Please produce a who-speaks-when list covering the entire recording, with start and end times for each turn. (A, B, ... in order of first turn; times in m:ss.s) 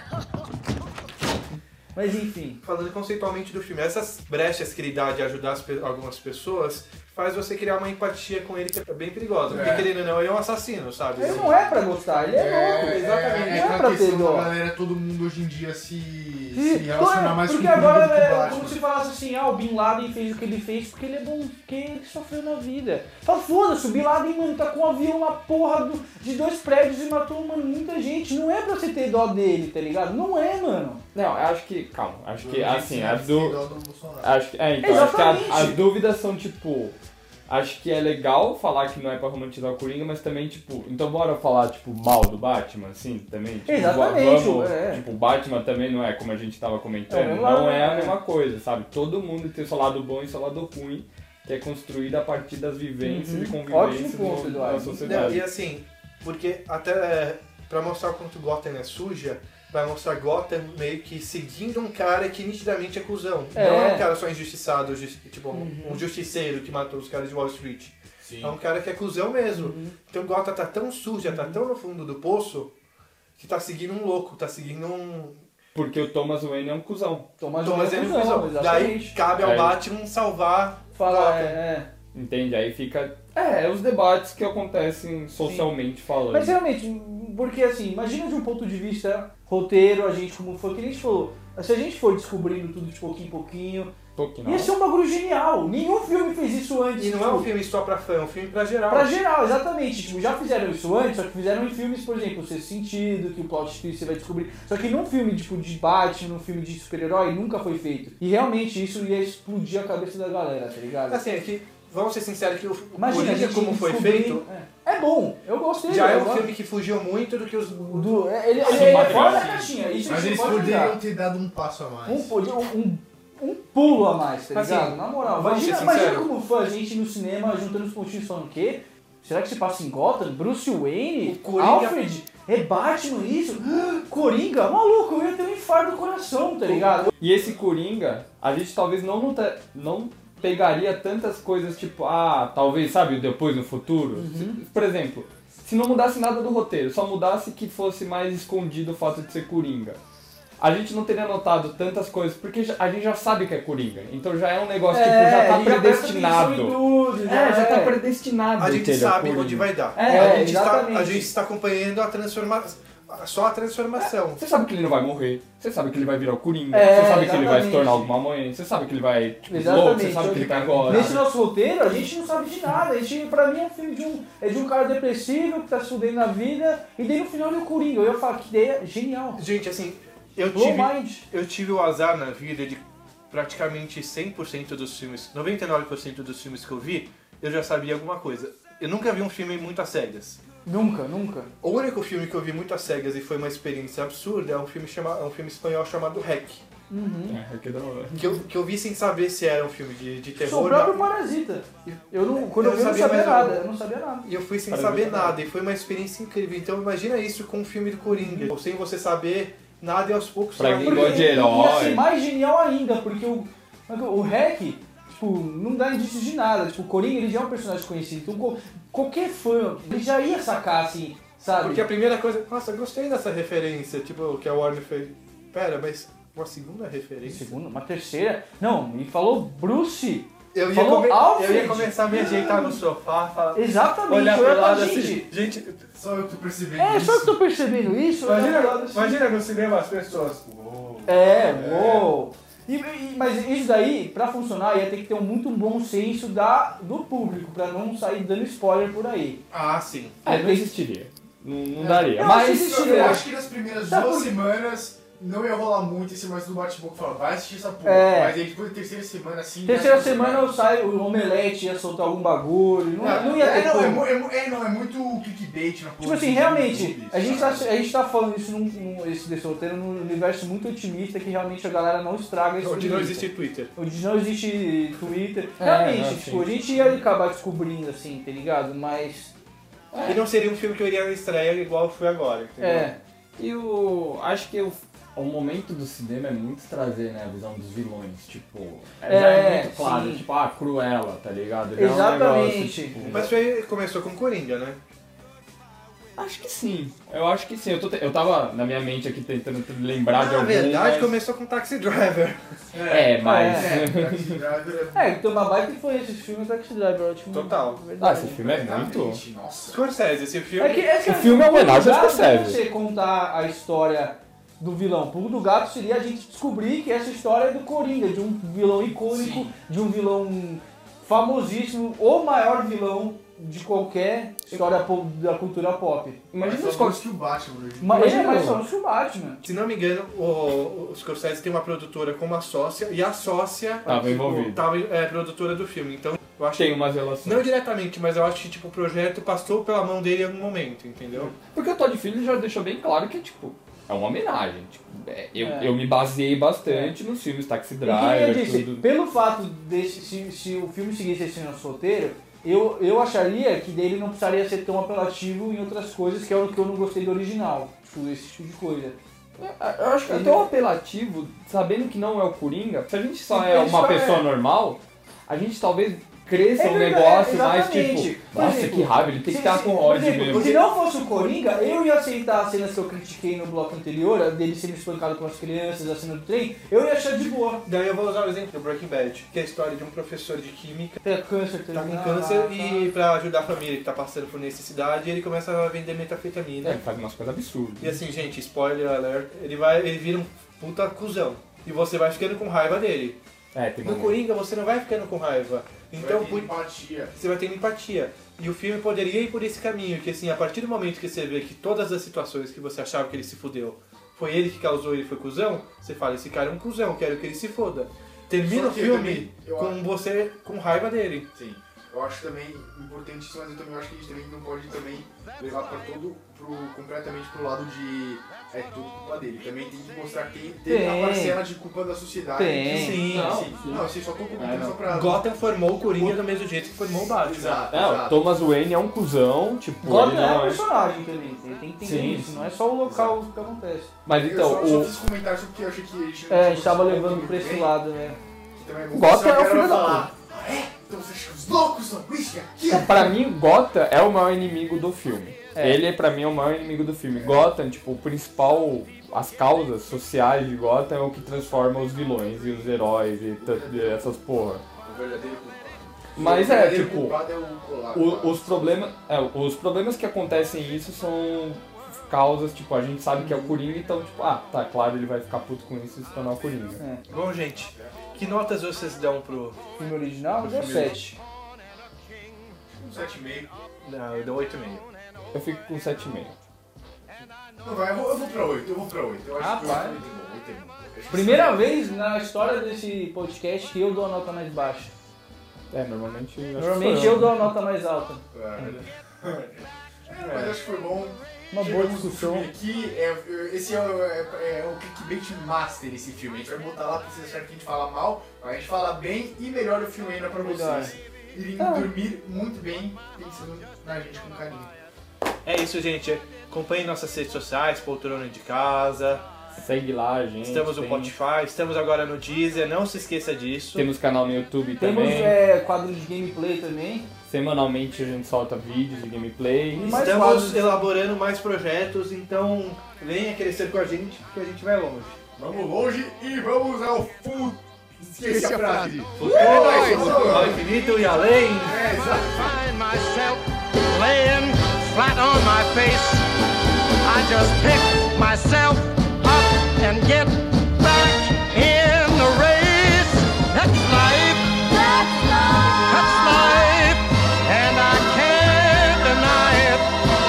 0:02.0-0:02.6 A
0:02.6-0:11.7 B
0:09.5-0:09.9 C
0:11.2-0:14.5 A
0:12.3-0:18.8 C
0:16.5-0:31.0 A
0:31.1-0:33.6 D
0:32.4-0:34.3 C
0:34.2-0:37.0 D
0:34.8-0:35.8 A
0:37.5-0:55.5 D
0:43.7-0:45.0 A
0:47.1-0:48.2 A
0:53.0-0:55.4 A
0:55.0-1:12.7 B
1:03.6-1:04.1 A
1:05.5-1:06.0 A
1:08.2-1:08.6 C
1:09.6-1:10.0 A
1:11.2-1:11.6 A
1:13.4-1:15.4 B
1:15.8-1:17.3 D
1:17.4-1:19.2 A
1:17.6-1:21.6 B
1:19.4-1:19.8 D
1:21.0-1:21.9 A
1:22.1-1:26.6 D
1:25.4-1:25.7 A
1:26.3-1:33.9 A
1:34.2-1:34.7 D
1:34.4-1:37.5 A
1:37.0-1:39.2 B
1:38.9-1:51.3 A
1:51.1-1:54.4 B
1:53.0-1:56.5 A
1:55.9-1:58.2 B
1:57.9-2:01.0 A
1:58.6-1:59.6 D
1:58.6-2:02.4 C
1:58.7-1:59.3 B
2:02.1-2:17.1 A
2:04.5-2:06.3 B
2:11.2-2:12.0 B
2:17.1-2:30.0 D
2:24.2-2:24.6 A
2:30.6-2:39.7 D
2:34.9-2:38.0 A
2:38.6-2:44.4 B
2:40.0-2:41.3 A
2:44.0-2:51.2 D
2:46.7-2:48.1 A
2:49.5-2:59.4 A
2:50.3-2:51.2 B
2:59.4-3:10.4 B
3:00.5-3:01.2 A
3:10.7-3:11.5 A
3:11.6-3:16.6 B
3:16.9-3:17.4 A
3:17.3-3:18.4 D
3:18.2-3:21.1 B
3:20.4-3:24.3 A
3:21.9-3:23.6 B
3:24.2-3:31.4 B
3:24.7-3:25.3 D
3:28.1-3:28.5 A
3:30.6-3:32.0 D
3:30.8-3:41.9 A
3:41.6-3:47.5 B
3:47.2-3:52.8 A
3:50.5-3:55.9 B
3:53.6-3:55.3 A
3:55.9-3:57.4 C
3:56.8-3:59.2 A
3:58.2-4:02.1 B
4:01.1-4:09.4 A
4:09.5-4:10.2 B
4:10.2-4:10.7 A
4:10.2-4:13.2 D
4:11.8-4:20.5 C
4:12.2-4:13.2 A
4:13.9-4:14.4 A
4:17.8-4:18.4 A
4:19.6-4:24.1 A
4:23.0-4:27.7 C
4:23.0-4:23.4 B
4:26.0-4:39.3 A
4:32.6-4:33.7 B
4:35.6-4:36.5 D
4:39.9-4:40.2 D
4:40.0-4:43.0 B
4:42.6-4:43.0 A
4:43.4-4:53.3 D
4:49.1-4:50.2 A
4:51.8-4:53.2 A
4:53.1-4:54.8 B
4:56.2-5:01.1 D
5:00.1-5:02.4 B
5:02.7-5:05.2 C
5:02.9-5:04.4 D
5:03.2-5:03.8 A
5:05.0-5:08.4 A
5:07.3-5:07.8 B
5:08.0-5:09.2 D
5:08.2-5:09.8 C
5:09.7-5:10.9 B
5:10.6-5:26.2 A
5:11.1-5:12.6 D
5:19.1-5:19.5 C
5:26.3-5:27.0 D
5:26.4-5:28.2 C
5:27.8-5:29.4 A
5:27.9-5:28.6 D
5:29.4-5:41.3 B
5:33.9-5:34.6 D
5:36.6-5:37.5 D
5:41.4-5:48.9 D
5:45.4-5:45.7 A
5:46.7-5:47.0 A
5:47.8-5:59.0 A
5:59.4-6:10.6 D
6:00.1-6:00.5 A
6:03.3-6:04.2 A
6:06.6-6:17.6 A
6:17.6-6:21.0 B
6:21.0-6:22.9 A
6:21.7-6:26.8 B
6:26.6-6:28.0 D
6:27.8-6:33.2 B
6:33.5-6:34.2 D
6:33.8-6:36.5 B
6:36.0-6:37.2 C
6:37.2-6:51.3 B
6:48.4-6:49.8 C
6:51.3-7:05.2 C
7:00.7-7:01.4 A
7:02.4-7:03.1 A
7:02.7-7:03.4 B
7:03.1-7:04.8 D
7:04.8-7:07.7 B
7:06.0-7:06.2 C
7:07.1-7:08.3 C
7:07.7-7:10.6 D
7:09.8-7:13.9 A
7:11.8-7:12.4 D
7:12.8-7:13.2 C
7:14.0-7:15.0 D
7:14.2-7:17.8 C
7:16.3-7:18.2 A
7:18.5-7:23.2 C
7:18.9-7:20.1 D
7:22.7-7:34.6 D
7:25.6-7:25.8 A
7:27.2-7:27.4 C
7:33.4-7:34.2 C
7:34.8-7:38.4 C
7:36.2-7:37.2 D
7:37.9-7:46.8 D
7:43.2-7:43.6 A
7:46.8-7:47.0 A
7:47.1-7:49.6 B
7:49.8-7:51.2 A
7:50.4-7:50.9 B
7:52.0-7:52.5 E
7:52.8-7:53.5 C
7:53.8-7:54.8 B
7:55.3-7:56.4 D
7:57.6-8:01.6 C
7:59.4-8:00.0 A
8:01.1-8:04.9 A
8:05.7-8:07.5 D
8:06.6-8:08.2 A
8:08.3-8:08.8 C
8:08.6-8:09.6 B
8:10.1-8:24.7 C
8:11.5-8:12.5 A
8:20.4-8:20.9 A
8:21.6-8:21.9 D
8:25.4-8:29.3 B
8:29.6-8:31.1 D
8:30.4-8:33.9 B
8:33.8-8:35.4 D
8:34.8-8:37.1 A
8:37.3-8:40.2 D
8:39.8-8:40.9 A
8:39.8-8:45.2 B
8:45.4-8:50.7 C
8:48.2-8:50.6 D
8:49.2-8:51.8 B
8:49.4-8:56.3 E
8:51.6-8:52.6 C
8:57.0-9:09.9 E